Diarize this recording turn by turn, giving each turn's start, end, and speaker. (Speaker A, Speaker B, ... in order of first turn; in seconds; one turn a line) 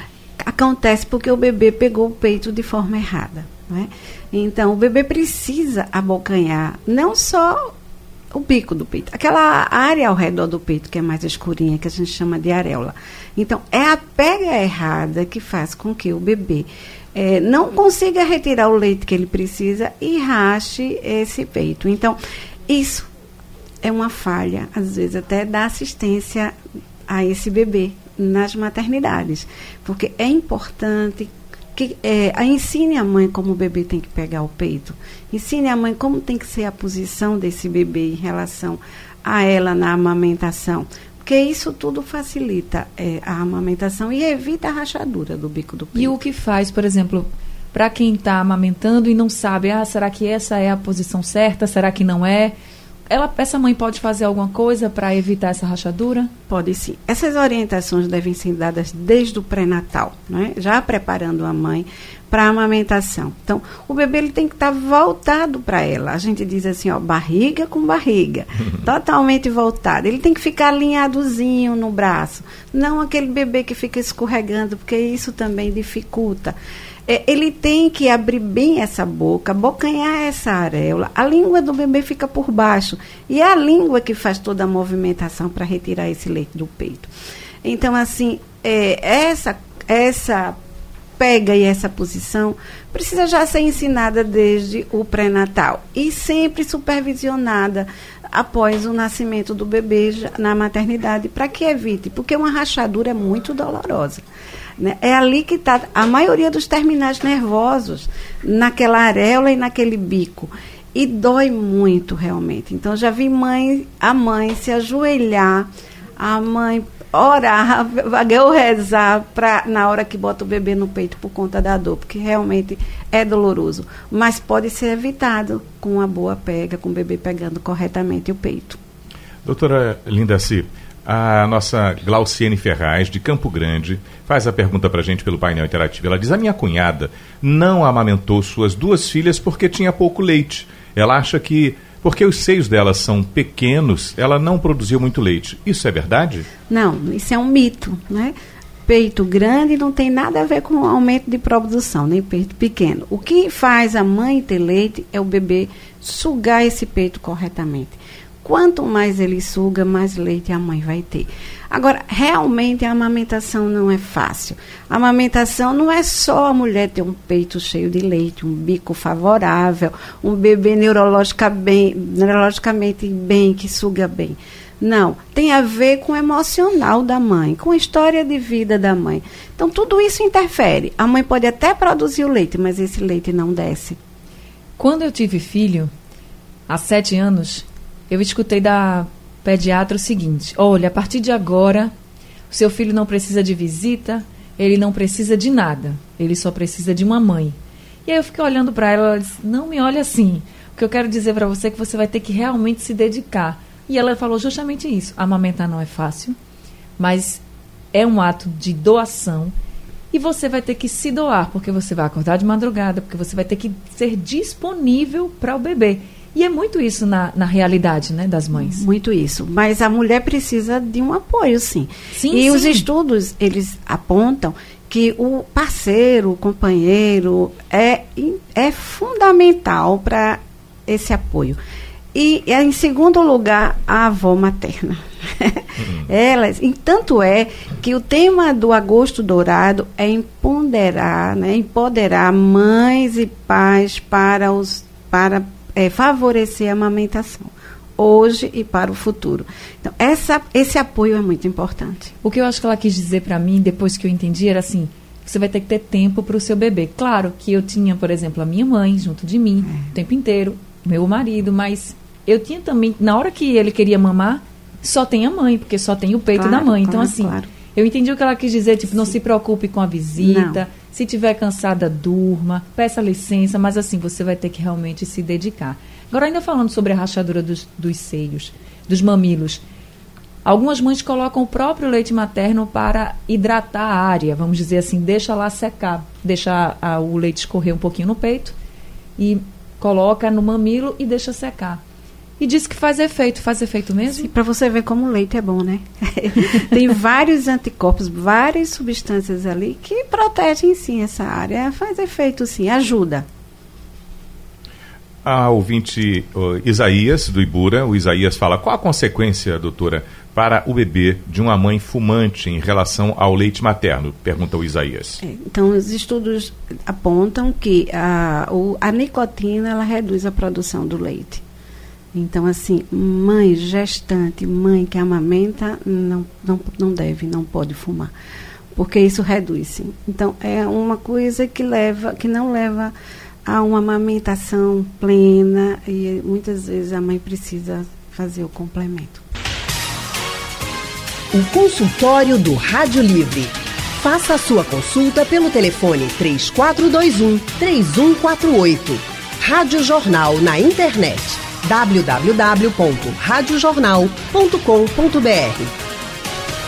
Speaker A: 0.4-7.7
Speaker A: 8.3-22.2
Speaker A: 22.7-23.1
Speaker A: 23.8-26.5
Speaker A: 27.1-46.1
Speaker B: 45.9-52.5
Speaker B: 53.1-56.3
Speaker A: 56.5-76.5
Speaker A: 77.1-87.1
Speaker A: 87.6-90.6
Speaker A: 91.2-104.2
Speaker A: 104.8-128.8
Speaker C: 129.4-146.5
Speaker A: 146.7-148.3
Speaker A: 148.9-184.0
Speaker B: 184.8-185.9
Speaker B: 186.7-191.9
Speaker B: 192.5-206.3
Speaker B: 207.0-207.4
Speaker B: 207.9-209.5
Speaker B: 210.1-218.8
Speaker A: 218.5-231.6
Speaker B: 222.1-222.8
Speaker A: 232.1-252.1
Speaker B: 252.2-279.6
Speaker A: 266.4-267.5
Speaker A: 270.2-270.6
Speaker B: 280.4-288.5
Speaker B: 289.2-291.8
Speaker B: 292.4-294.3
Speaker A: 294.1-303.2
Speaker C: 305.2-315.2
Speaker A: 315.2-321.4
Speaker A: 322.1-328.1
Speaker A: 328.7-332.9
Speaker A: 333.4-339.2
Speaker D: 341.3-355.8